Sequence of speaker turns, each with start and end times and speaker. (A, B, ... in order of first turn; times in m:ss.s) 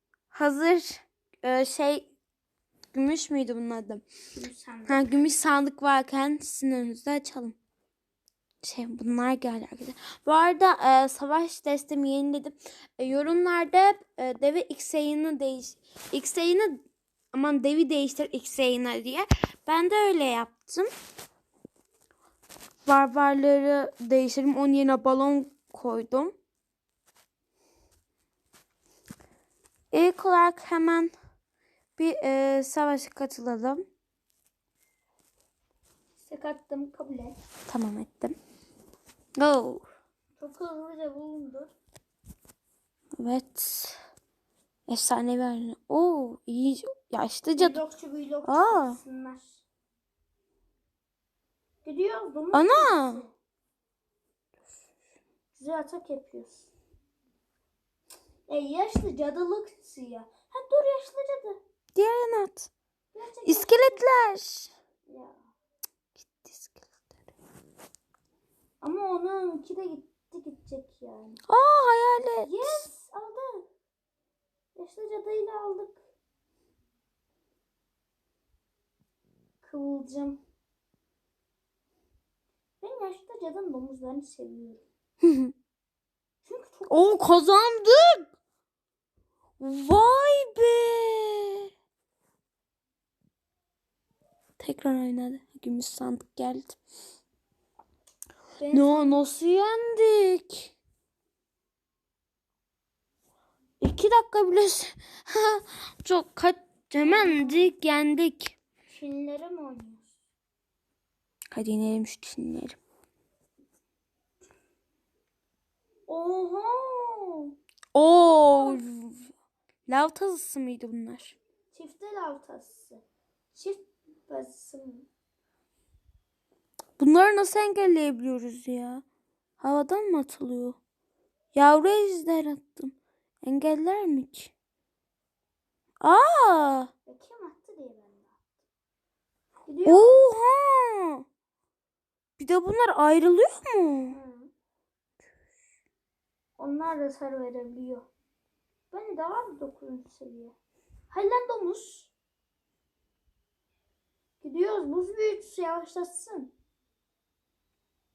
0:00.3-0:02.1 A
0:02.9-0:04.0 A
0:04.3-0:05.1 B
0:04.9-0:07.6 A
0:08.6-0:16.8 A
0:17.3-0:20.9 A
0:22.8-0:26.3 A
0:29.9-0:31.1 A
0:32.0-0:33.8 A
0:36.2-0:37.4 B
0:37.7-0:38.4 A
0:39.4-0:39.8 A
0:40.4-0:41.7 B
0:43.2-0:44.0 A
0:44.9-0:47.8 A
0:47.6-0:49.6 B
0:48.4-0:49.0 A
0:51.8-0:53.3 B
0:52.5-0:53.2 A
0:55.5-0:56.7 B
0:58.5-1:01.6 B
1:01.9-1:02.7 A
1:03.1-1:04.0 B
1:03.4-1:04.7 A
1:05.1-1:05.4 B
1:06.2-1:06.9 A
1:08.8-1:11.4 B
1:11.5-1:12.8 A
1:12.4-1:13.7 B
1:14.8-1:16.0 B
1:19.6-1:20.4 B
1:22.8-1:24.8 B
1:25.2-1:25.5 A
1:26.4-1:27.2 B
1:26.9-1:28.3 A
1:29.6-1:31.7 A
1:34.6-1:36.8 A
1:38.6-1:39.2 B
1:38.7-1:40.7 A
1:43.8-1:48.6 A
1:47.0-1:47.7 B
1:48.9-1:50.2 B
1:51.5-1:52.8 A
1:56.1-1:57.5 B
1:57.9-1:59.3 A
1:58.2-1:58.8 B
1:59.9-2:01.4 A
2:01.7-2:03.0 B
2:03.5-2:05.1 B
2:07.0-2:09.0 A
2:09.6-2:10.8 A
2:11.5-2:14.5 A
2:16.0-2:16.9 A
2:17.0-2:18.4 B
2:19.7-2:20.2 B
2:19.8-2:21.2 A
2:22.4-2:24.1 A
2:24.1-2:24.5 B
2:26.6-2:28.1 B
2:28.9-2:30.5 B
2:31.1-2:32.1 B
2:34.4-2:36.5 B